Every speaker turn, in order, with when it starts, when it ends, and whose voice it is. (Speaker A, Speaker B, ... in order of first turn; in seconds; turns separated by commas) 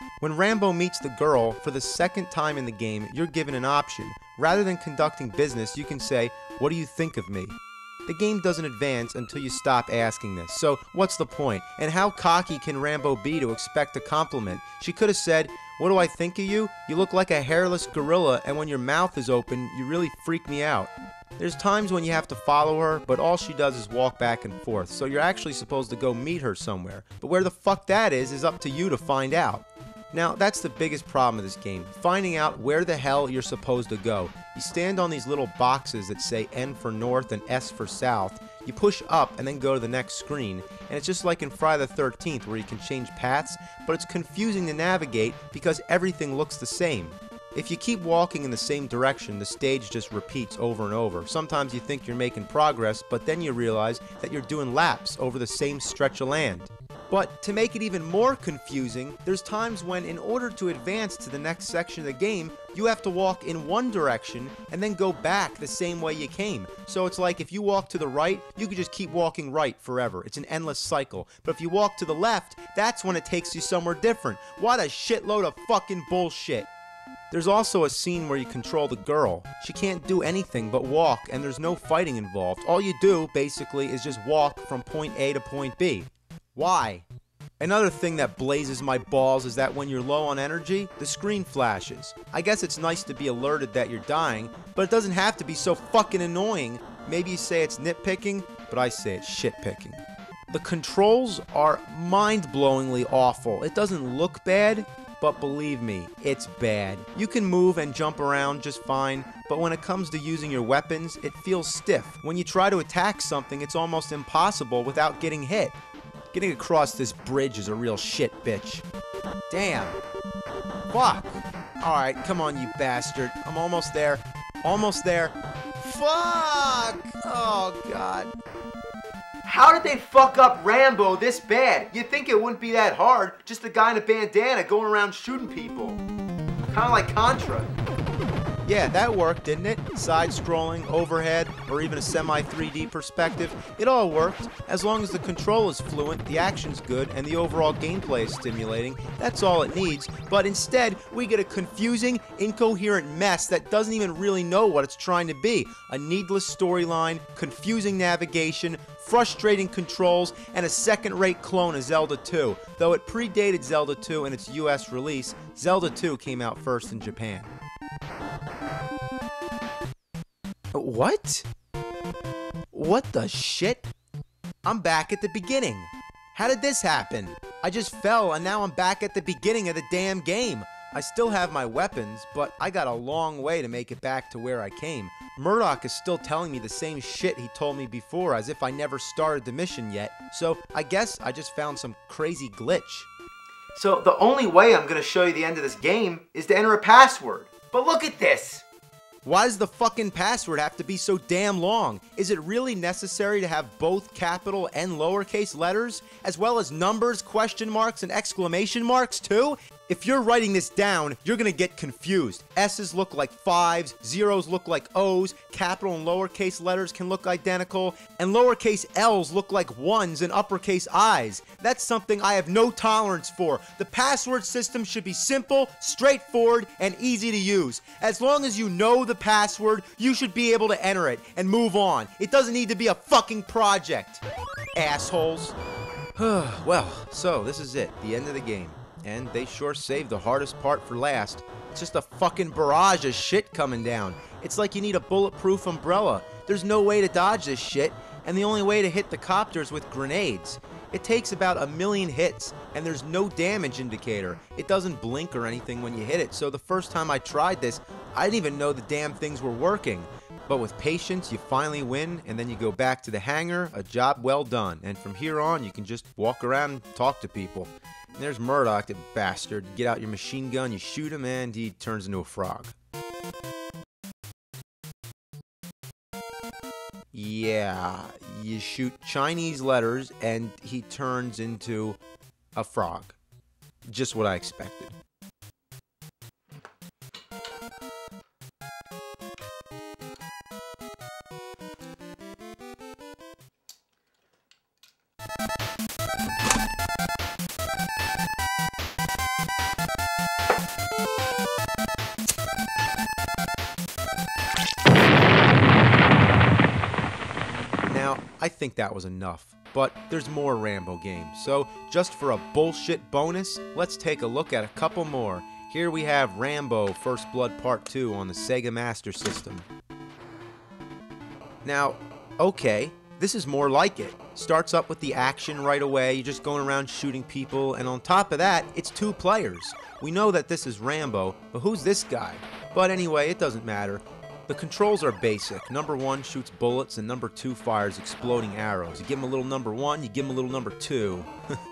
Speaker A: 0.2-76.7, Speaker A: 77.3-87.1, Speaker A: 87.6-115.8, Speaker A: 116.3-118.8, Speaker A: 119.5-120.0, Speaker A: 120.9-128.3, Speaker A: 129.4-136.0, Speaker A: 136.7-137.8, Speaker A: 138.7-167.6, Speaker A: 170.7-171.5, Speaker A: 172.7-173.9, Speaker A: 174.6-193.1, Speaker A: 193.8-198.7, Speaker A: 199.2-234.2, Speaker A: 234.8-235.6, Speaker A: 236.2-272.8, Speaker A: 277.1-282.0, Speaker A: 282.6-283.2, Speaker A: 283.9-285.0, Speaker A: 307.9-319.7, Speaker A: 321.6-341.3